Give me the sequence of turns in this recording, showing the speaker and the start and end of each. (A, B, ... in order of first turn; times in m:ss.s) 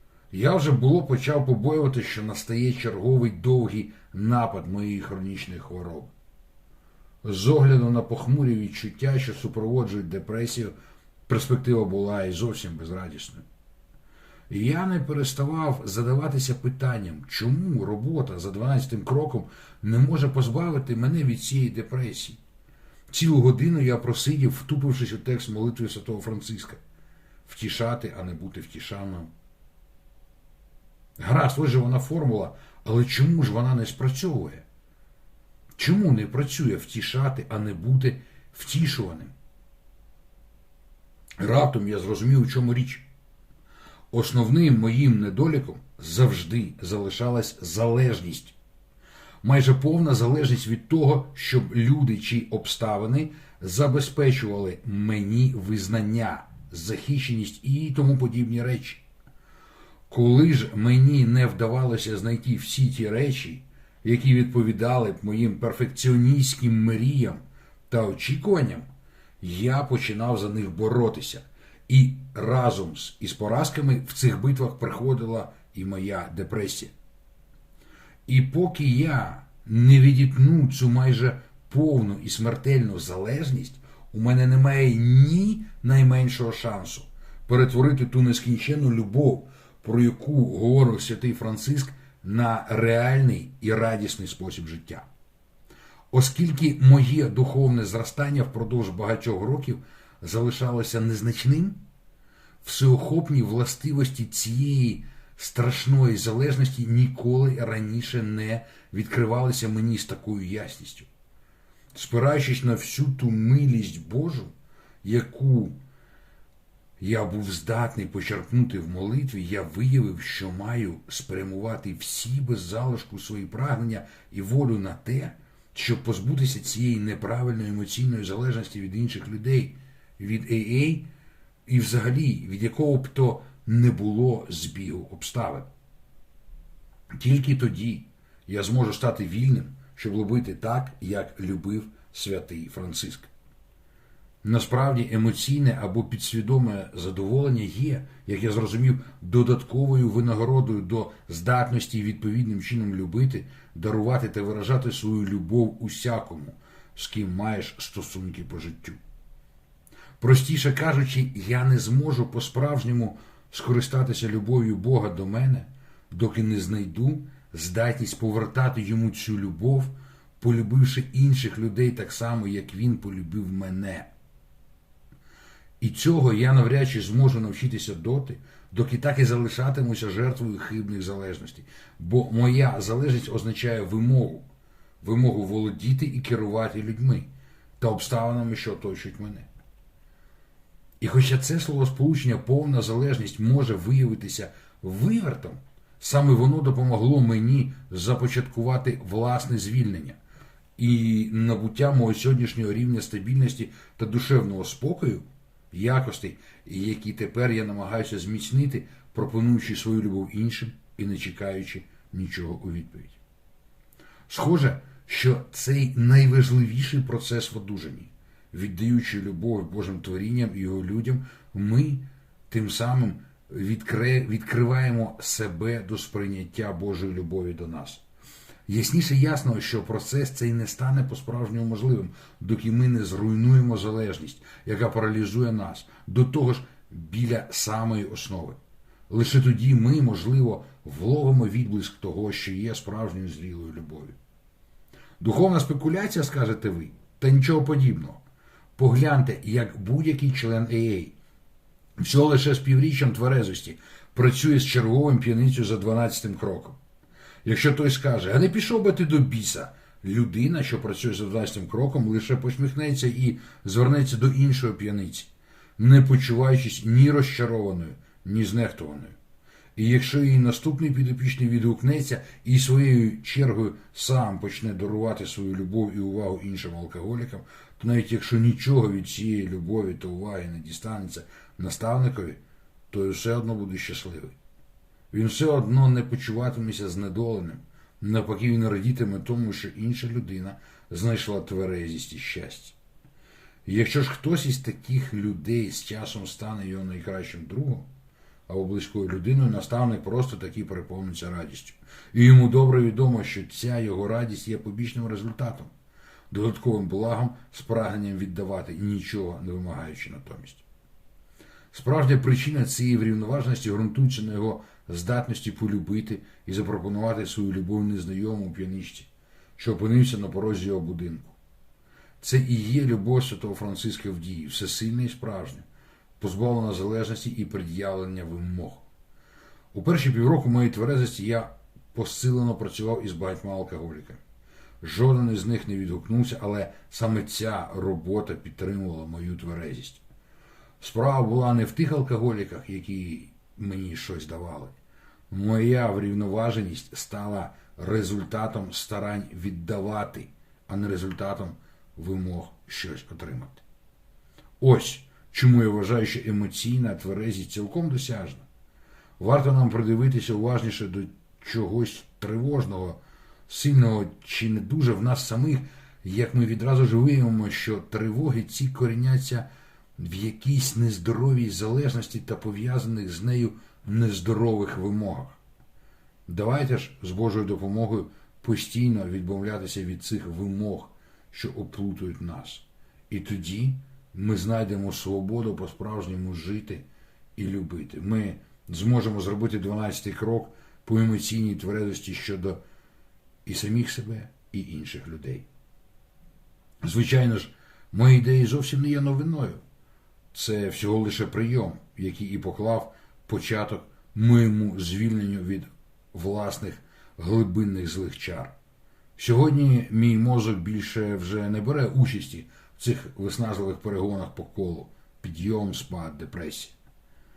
0:00.3-0:06.1 A
0:07.2-0:10.7 A
0:11.3-0:13.4 A
0:14.5-0:22.4 A
0:23.1-0:26.8 A
0:27.4-0:29.3 A
0:31.2-0:34.6 A
0:35.8-0:39.3 A
0:41.4-0:43.1 A
0:44.1-0:48.6 A
0:49.4-0:59.0 A
1:00.1-1:08.9 A
1:09.4-1:16.9 A
1:18.3-1:35.1 A
1:36.1-1:41.8 A
1:42.6-1:51.1 A
1:51.9-1:54.5 A
1:55.0-1:55.8 A
1:57.0-2:11.1 A
2:11.7-2:15.7 A
2:17.1-2:23.3 A
2:24.4-2:39.0 A
2:40.2-2:54.1 A
2:55.8-3:04.4 A
3:05.0-3:07.3 A
3:07.8-3:09.5 A
3:11.0-3:20.2 A
3:20.8-3:33.2 A
3:34.3-3:48.0 A
3:48.7-4:04.2 A
4:05.2-4:08.2 A
4:08.8-4:11.1 A
4:12.0-4:16.8 A
4:17.4-4:29.2 A
4:29.8-4:42.4 A
4:42.9-4:44.4 A
4:45.1-4:52.8 A
4:53.7-4:57.8 A
4:58.5-5:05.7 A
5:06.3-5:10.6 A
5:11.7-5:21.4 A
5:22.2-5:25.6 A
5:26.2-5:28.8 A
5:29.7-5:34.2 A
5:34.8-5:40.0 A
5:40.8-5:44.7 A
5:45.3-5:53.6 A
5:54.6-5:58.4 A
5:59.2-6:15.4 A
6:16.3-6:26.8 A
6:27.4-6:32.6 A
6:33.4-6:35.4 A
6:36.8-6:39.6 A
6:40.3-6:48.5 A
6:49.2-6:56.8 A